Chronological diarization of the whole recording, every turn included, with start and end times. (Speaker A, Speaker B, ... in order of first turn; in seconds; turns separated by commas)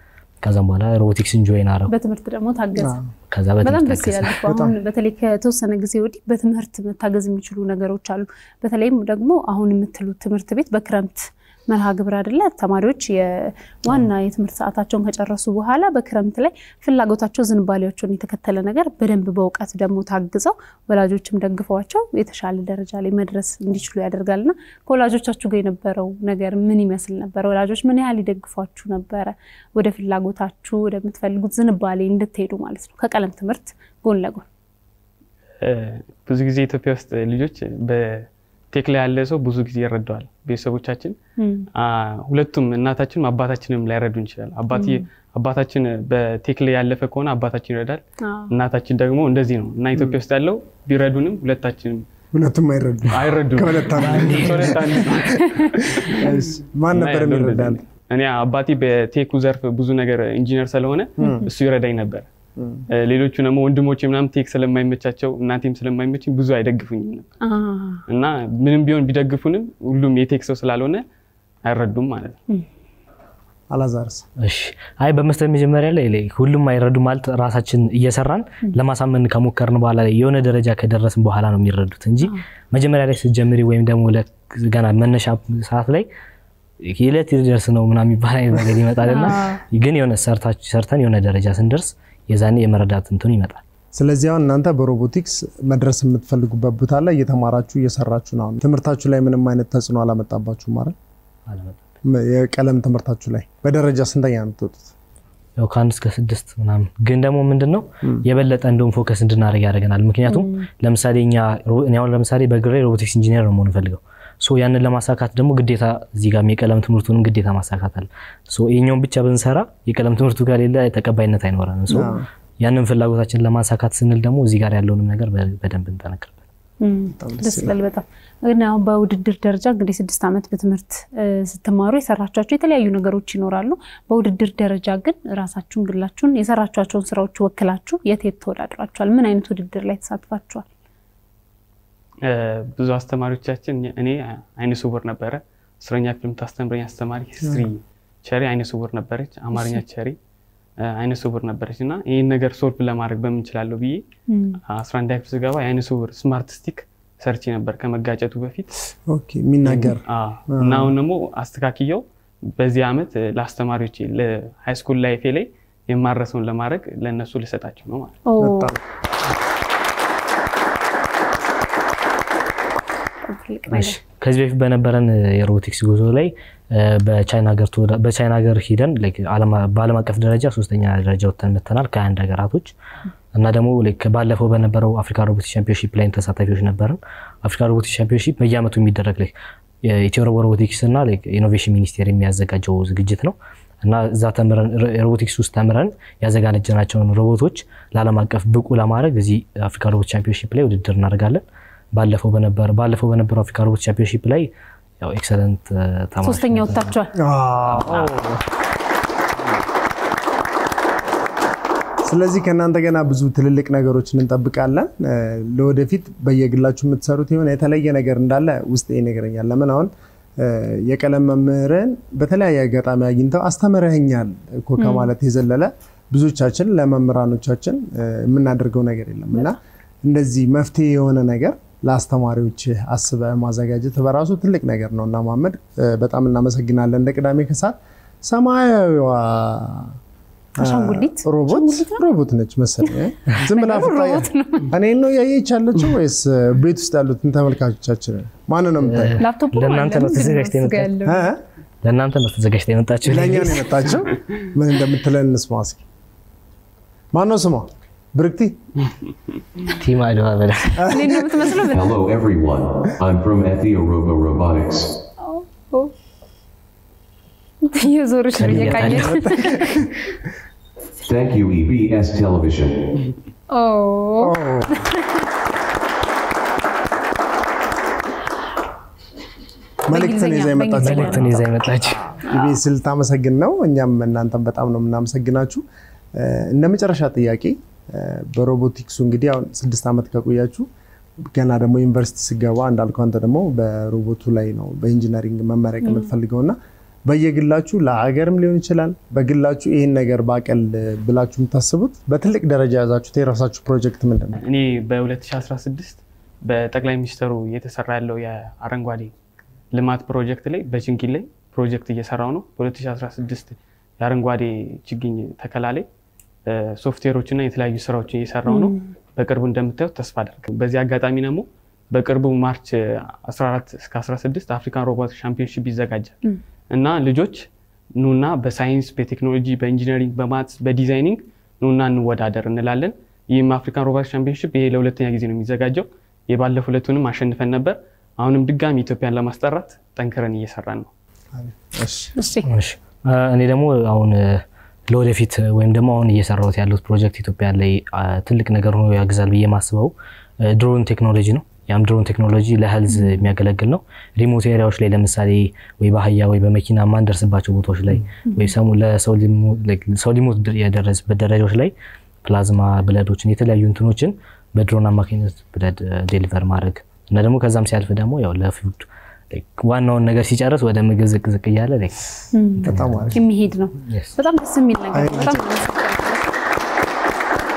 Speaker A: 0.4-1.9, Speaker B: 1.9-3.0, Speaker C: 2.8-3.1, Speaker A: 3.3-4.3, Speaker B: 3.6-34.5, Speaker C: 4.5-4.8, Speaker D: 35.6-41.2, Speaker B: 41.4-41.7, Speaker D: 41.8-52.0, Speaker B: 44.7-45.0, Speaker B: 48.2-48.5, Speaker C: 52.3-57.8, Speaker D: 53.1-56.3, Speaker A: 54.0-54.7, Speaker D: 56.9-62.3, Speaker C: 61.2-61.5, Speaker C: 62.6-62.9, Speaker D: 62.9-67.3, Speaker B: 67.4-68.0, Speaker D: 68.1-71.0, Speaker D: 71.7-72.4, Speaker C: 73.7-74.3, Speaker A: 74.4-86.1, Speaker A: 86.8-93.6, Speaker B: 89.0-89.6, Speaker C: 93.9-101.0, Speaker A: 101.5-101.8, Speaker C: 102.0-104.9, Speaker A: 105.6-126.4, Speaker B: 110.3-110.7, Speaker C: 121.9-122.2, Speaker B: 126.8-140.7, Speaker C: 127.2-127.7, Speaker D: 142.2-150.2, Speaker D: 150.8-154.0, Speaker B: 154.3-154.6, Speaker D: 154.7-158.8, Speaker C: 159.1-160.9, Speaker D: 159.7-162.0, Speaker D: 162.6-168.2, Speaker B: 168.3-168.7, Speaker C: 168.4-168.8, Speaker B: 173.3-174.0, Speaker A: 173.7-182.7, Speaker A: 183.3-189.3, Speaker A: 189.8-201.4, Speaker A: 201.9-206.9, Speaker B: 206.2-207.1, Speaker C: 207.2-208.1, Speaker A: 207.8-208.3, Speaker C: 212.0-240.0, Speaker B: 224.8-225.1, Speaker B: 240.6-242.1, Speaker C: 240.6-249.2, Speaker B: 243.5-244.7, Speaker A: 248.8-250.9, Speaker B: 249.2-251.3, Speaker C: 251.1-251.4, Speaker A: 251.8-253.7, Speaker C: 253.0-255.8, Speaker C: 257.1-258.6, Speaker A: 259.8-260.9, Speaker C: 260.8-261.7, Speaker B: 260.9-262.0, Speaker E: 261.7-264.9, Speaker B: 265.2-265.9, Speaker B: 267.7-269.8, Speaker A: 268.4-269.2, Speaker C: 268.7-269.9, Speaker E: 271.1-272.9, Speaker B: 273.5-275.2, Speaker C: 274.2-274.8, Speaker B: 279.9-281.4, Speaker C: 279.9-285.6, Speaker A: 280.8-282.0, Speaker B: 282.3-282.6, Speaker C: 286.2-290.7, Speaker C: 291.3-296.6, Speaker B: 295.8-296.1, Speaker C: 297.1-304.4, Speaker D: 304.4-309.1, Speaker D: 309.7-315.9, Speaker D: 316.5-326.2, Speaker B: 318.5-318.9, Speaker D: 326.7-327.5, Speaker D: 328.0-340.9, Speaker C: 341.3-342.2, Speaker B: 342.2-342.5, Speaker A: 342.5-372.0, Speaker B: 352.9-353.2, Speaker B: 358.3-358.5, Speaker B: 372.3-376.3, Speaker A: 372.6-373.1, Speaker C: 372.6-373.2, Speaker A: 373.9-374.1, Speaker C: 374.9-375.4